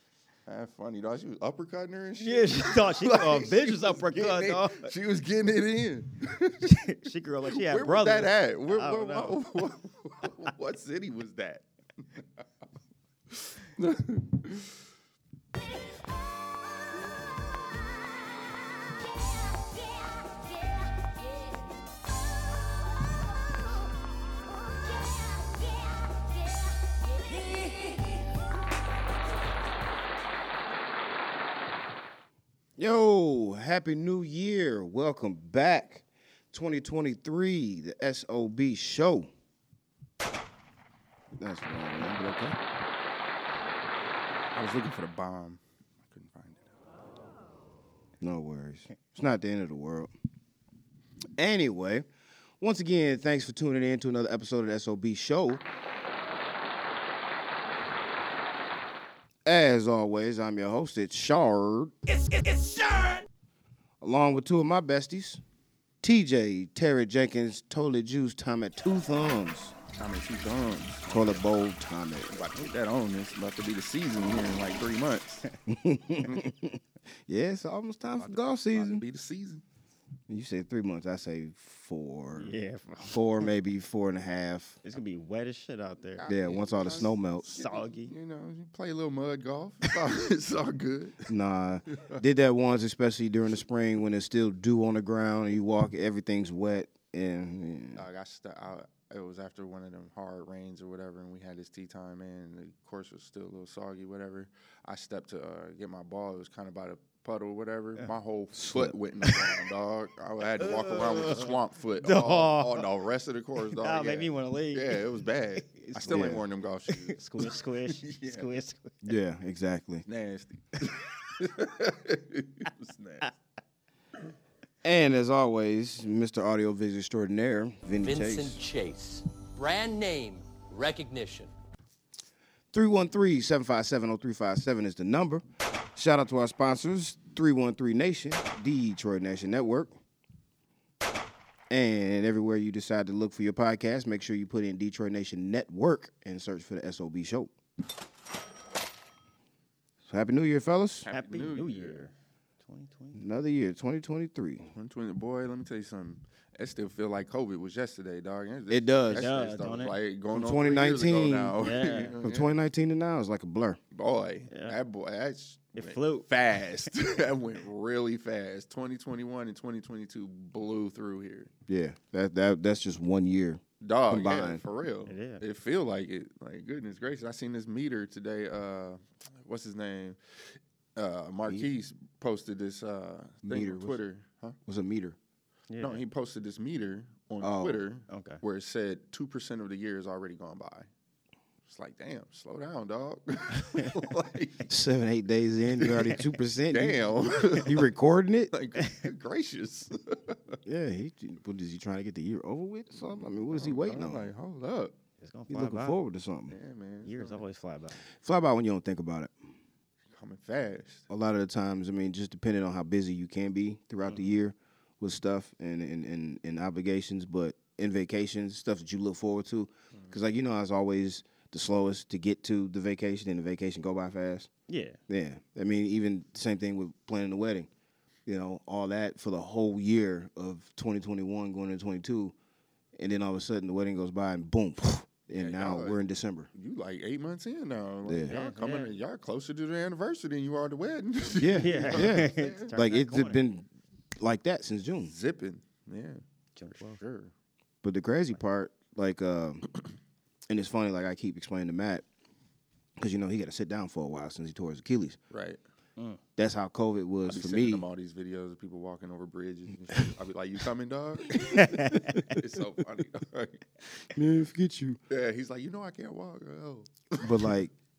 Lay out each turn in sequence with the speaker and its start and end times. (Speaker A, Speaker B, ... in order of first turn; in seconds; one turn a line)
Speaker A: 0.5-6.8
Speaker B: 2.2-4.9
Speaker B: 6.6-9.4
Speaker A: 7.5-11.6
Speaker A: 12.2-12.4
Speaker A: 13.3-14.7
Speaker C: 32.8-39.3
Speaker C: 41.4-42.6
Speaker A: 44.5-46.6
Speaker C: 48.2-50.1
Speaker C: 51.4-52.1
Speaker C: 52.6-55.6
Speaker C: 59.4-62.8
Speaker C: 64.0-65.4
Speaker C: 66.0-69.7
Speaker A: 69.9-71.4
Speaker C: 71.1-72.4
Speaker A: 72.3-75.5
Speaker C: 75.7-79.0
Speaker A: 76.2-76.5
Speaker A: 78.2-79.6
Speaker C: 80.3-82.5
Speaker B: 82.3-83.5
Speaker C: 83.1-84.8
Speaker B: 84.8-86.3
Speaker A: 86.2-91.3
Speaker C: 86.3-87.5
Speaker B: 87.4-88.1
Speaker C: 91.3-98.0
Speaker A: 97.9-118.5
Speaker C: 108.5-108.9
Speaker B: 110.6-111.5
Speaker B: 112.0-112.9
Speaker B: 113.8-116.3
Speaker C: 116.1-116.4
Speaker B: 116.9-119.0
Speaker C: 119.0-120.0
Speaker A: 120.1-123.3
Speaker C: 124.8-128.6
Speaker D: 128.0-131.5
Speaker C: 132.7-135.4
Speaker C: 135.9-140.0
Speaker C: 141.7-147.5
Speaker C: 150.1-151.1
Speaker A: 151.0-152.0
Speaker B: 151.1-153.2
Speaker C: 153.1-154.7
Speaker A: 154.7-162.6
Speaker C: 158.7-159.3
Speaker B: 159.1-160.0
Speaker C: 160.3-163.8
Speaker B: 161.6-162.2
Speaker A: 163.9-171.5
Speaker B: 164.5-164.8
Speaker B: 165.8-166.3
Speaker C: 171.7-174.6
Speaker A: 173.8-180.2
Speaker B: 175.1-175.4
Speaker A: 180.9-184.6
Speaker C: 183.4-184.0
Speaker C: 184.7-185.2
Speaker B: 185.7-186.0
Speaker A: 185.8-190.9
Speaker C: 187.4-187.8
Speaker B: 188.1-188.4
Speaker A: 191.7-194.7
Speaker C: 194.7-198.5
Speaker A: 195.8-197.9
Speaker A: 198.5-200.6
Speaker C: 200.6-204.3
Speaker A: 203.0-204.9
Speaker B: 205.2-206.0
Speaker C: 205.5-206.5
Speaker A: 206.5-207.4
Speaker B: 207.0-208.0
Speaker C: 208.0-209.3
Speaker A: 210.2-211.1
Speaker C: 211.1-224.5
Speaker B: 214.1-214.3
Speaker B: 224.7-225.0
Speaker C: 225.1-227.7
Speaker C: 228.2-232.3
Speaker C: 232.9-236.5
Speaker A: 235.3-236.0
Speaker A: 236.5-242.7
Speaker C: 238.0-238.3
Speaker B: 238.3-238.9
Speaker C: 241.4-245.1
Speaker B: 241.5-243.4
Speaker A: 245.0-246.2
Speaker B: 246.6-247.0
Speaker A: 246.7-247.3
Speaker C: 247.8-249.7
Speaker C: 250.5-252.0
Speaker C: 253.0-255.2
Speaker A: 255.3-255.6
Speaker C: 256.4-257.9
Speaker A: 257.2-264.1
Speaker B: 261.5-262.3
Speaker C: 264.1-265.0
Speaker A: 265.1-267.5
Speaker C: 267.2-267.7